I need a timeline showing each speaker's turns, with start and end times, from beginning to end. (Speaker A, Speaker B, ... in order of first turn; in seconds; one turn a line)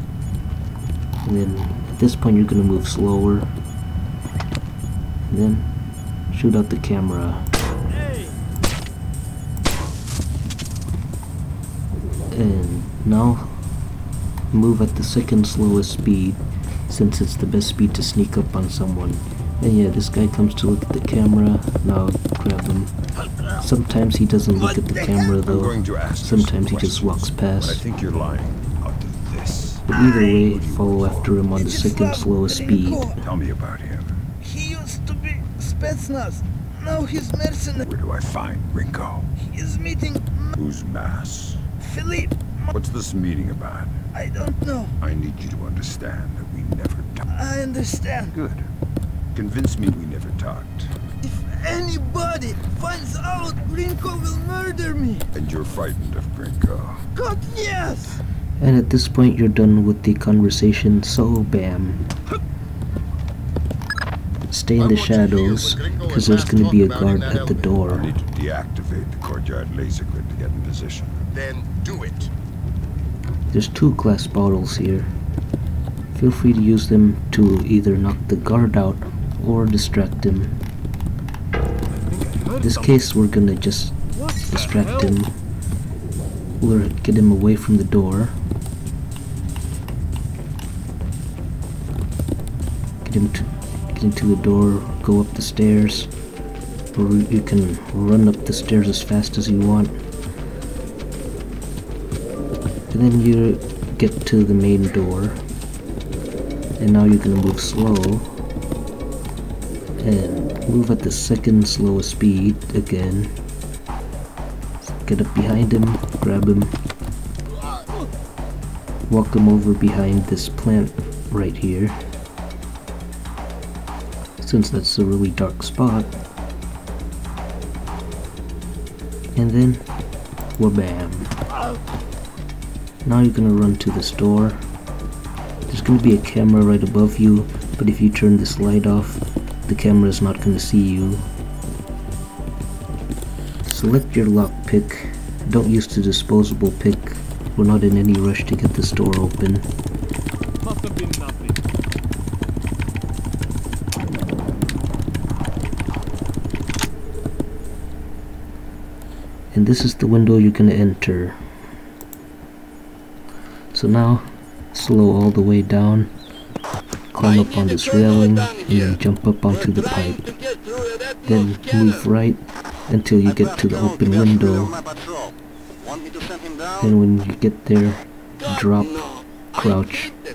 Speaker A: 1.2-3.5
Speaker A: 5.3-5.7
Speaker A: 6.3-7.5
Speaker A: 12.3-13.6
Speaker A: 14.5-22.9
Speaker A: 23.6-27.8
Speaker B: 24.6-25.3
Speaker C: 25.4-31.3
Speaker B: 29.9-30.4
Speaker A: 30.0-33.2
Speaker B: 31.6-33.2
Speaker C: 33.1-34.2
Speaker B: 34.4-37.9
Speaker C: 37.9-39.3
Speaker B: 39.4-40.6
Speaker C: 40.6-41.6
Speaker B: 41.8-42.7
Speaker C: 42.7-44.0
Speaker B: 44.1-45.0
Speaker C: 45.0-47.2
Speaker B: 47.3-48.4
Speaker C: 48.3-48.7
Speaker C: 49.3-50.9
Speaker B: 51.2-55.3
Speaker C: 55.3-57.0
Speaker B: 57.2-58.2
Speaker A: 58.6-62.0
Speaker A: 64.5-68.1
Speaker D: 64.8-67.8
Speaker C: 67.9-71.2
Speaker D: 71.3-72.3
Speaker A: 73.5-75.1
Speaker A: 76.1-80.6
Speaker E: 82.1-83.0
Speaker A: 82.6-85.3
Speaker E: 84.2-85.2
Speaker A: 86.6-88.4
Speaker A: 93.0-96.1
Speaker A: 97.0-99.9
Speaker A: 102.9-105.4
Speaker A: 106.8-108.3
Speaker A: 110.0-113.3
Speaker A: 114.8-116.7
Speaker A: 119.1-122.0
Speaker A: 124.4-126.1
Speaker A: 129.3-129.9
Speaker A: 130.6-131.3
Speaker A: 133.0-134.6
Speaker A: 135.7-141.2
Speaker A: 143.6-149.7
Speaker E: 150.6-151.6
Speaker A: 159.5-161.4
Speaker A: 163.7-166.1
Speaker A: 167.1-170.3
Speaker A: 171.2-174.8
Speaker A: 176.8-180.2